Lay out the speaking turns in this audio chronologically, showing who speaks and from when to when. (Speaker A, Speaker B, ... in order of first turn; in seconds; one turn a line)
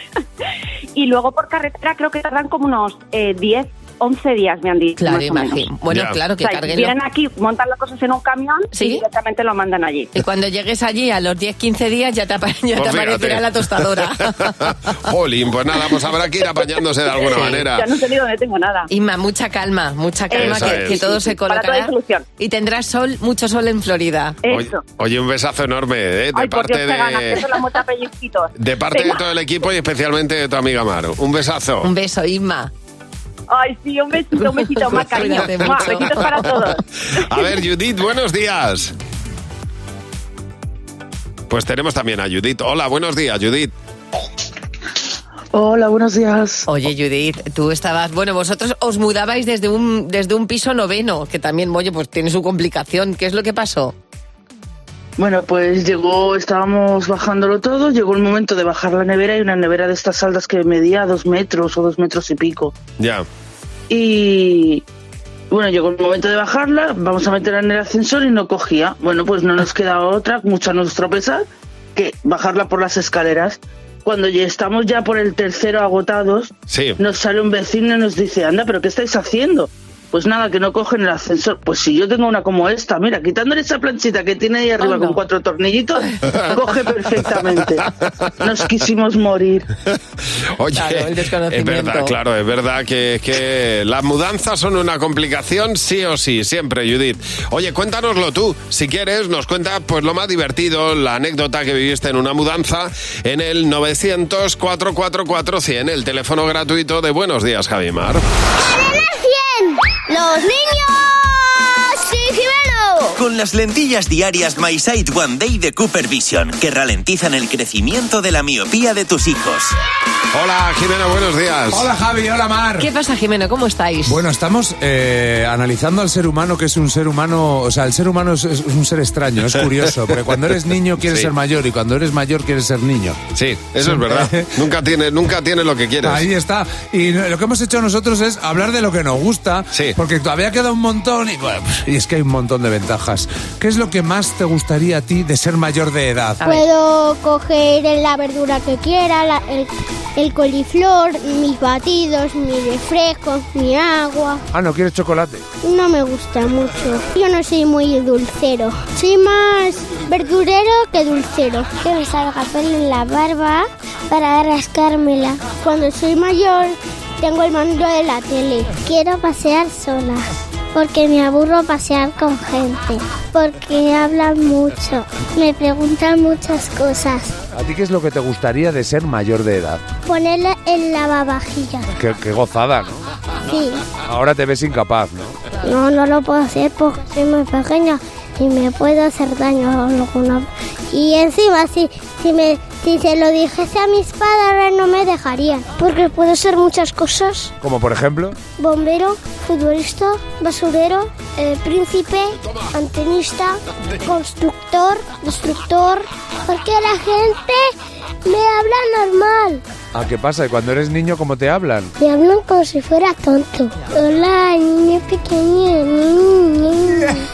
Speaker A: 0.9-5.7
Speaker B: 5.0-6.9
Speaker C: 5.9-6.2
Speaker A: 6.4-10.1
Speaker B: 8.7-9.0
Speaker B: 10.1-14.5
Speaker C: 12.8-13.5
Speaker C: 14.4-17.9
Speaker B: 17.3-17.6
Speaker A: 17.4-18.9
Speaker B: 18.9-24.4
Speaker A: 20.3-22.2
Speaker C: 20.4-21.0
Speaker A: 24.4-24.8
Speaker C: 24.5-27.5
Speaker A: 26.3-29.2
Speaker C: 28.6-31.9
Speaker B: 31.8-32.7
Speaker A: 33.5-36.8
Speaker B: 34.8-36.6
Speaker C: 37.1-38.9
Speaker C: 41.5-43.7
Speaker D: 45.5-46.6
Speaker B: 46.7-53.9
Speaker D: 55.2-62.7
Speaker C: 63.0-63.2
Speaker D: 63.9-64.8
Speaker D: 65.5-71.4
Speaker D: 72.0-76.5
Speaker C: 76.7-77.0
Speaker D: 77.0-86.0
Speaker B: 84.8-85.2
Speaker D: 86.5-87.8
Speaker D: 88.4-89.7
Speaker C: 90.6-108.2
Speaker B: 90.7-92.1
Speaker E: 108.6-113.2
Speaker F: 113.2-119.8
Speaker C: 120.3-121.9
Speaker G: 121.7-122.9
Speaker B: 122.8-124.2
Speaker G: 124.0-133.2
Speaker C: 131.0-131.3
Speaker C: 133.3-136.3
Speaker G: 133.8-134.6
Speaker G: 136.0-146.4
Speaker B: 146.4-146.7
Speaker E: 146.4-154.4
Speaker G: 154.5-155.4
Speaker E: 155.6-177.3
Speaker G: 177.5-179.8
Speaker E: 180.1-181.9
Speaker G: 181.9-183.0
Speaker E: 183.4-183.8
Speaker G: 184.0-185.4
Speaker E: 185.6-197.5
Speaker G: 197.6-198.4
Speaker E: 198.5-207.7
Speaker E: 208.2-209.6
Speaker G: 209.9-211.9
Speaker E: 212.0-217.2